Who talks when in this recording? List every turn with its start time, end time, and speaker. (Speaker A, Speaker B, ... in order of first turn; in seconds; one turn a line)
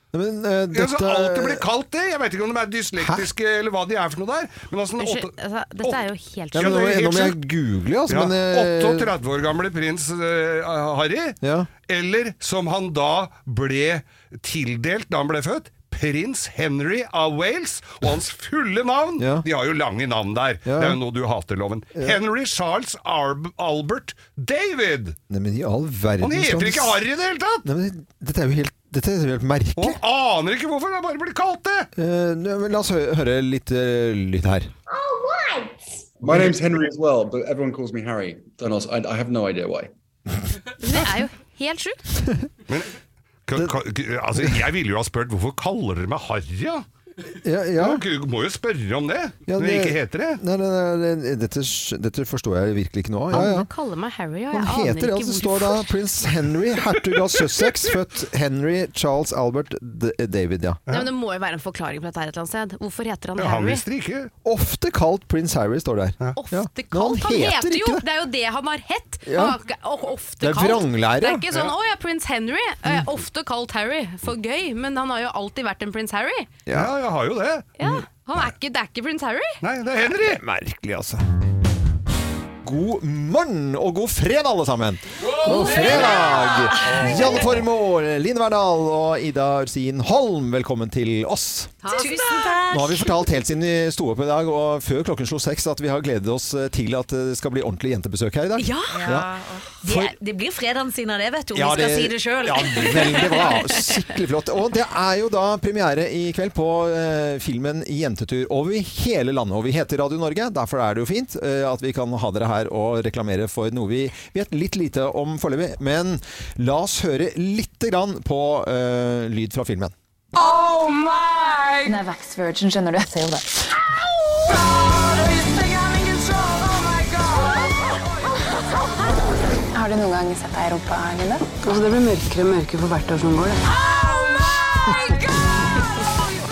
Speaker A: 0.1-1.6
Speaker B: 0.7-7.4
Speaker A: 3.0-3.3
Speaker C: 5.0-7.2
Speaker A: 6.5-9.1
Speaker B: 8.1-25.2
Speaker A: 11.4-11.7
Speaker A: 19.2-19.5
Speaker A: 20.6-21.0
Speaker A: 25.3-27.0
Speaker B: 26.2-27.6
Speaker A: 27.6-30.0
Speaker B: 29.8-31.9
Speaker A: 31.9-34.7
Speaker D: 36.2-39.9
Speaker B: 36.3-36.6
Speaker C: 40.8-42.0
Speaker B: 43.5-46.8
Speaker A: 47.4-48.0
Speaker B: 47.8-50.4
Speaker A: 49.5-53.7
Speaker C: 53.3-55.9
Speaker A: 54.5-60.8
Speaker C: 60.9-63.8
Speaker B: 63.4-64.3
Speaker A: 64.4-68.0
Speaker C: 66.4-76.6
Speaker A: 69.3-69.6
Speaker A: 70.4-71.4
Speaker A: 76.7-76.9
Speaker B: 76.7-77.7
Speaker C: 77.8-79.6
Speaker B: 79.6-80.4
Speaker A: 80.2-81.2
Speaker A: 82.6-91.7
Speaker E: 85.4-87.3
Speaker B: 85.7-86.2
Speaker B: 86.8-87.6
Speaker F: 91.8-92.6
Speaker E: 91.9-93.1
Speaker A: 92.7-99.3
Speaker E: 98.6-99.1
Speaker F: 98.9-99.6
Speaker E: 99.8-103.6
Speaker A: 99.9-100.1
Speaker A: 101.5-119.9
Speaker G: 120.3-128.0
Speaker G: 129.7-131.5
Speaker F: 131.6-133.6
Speaker G: 133.9-135.2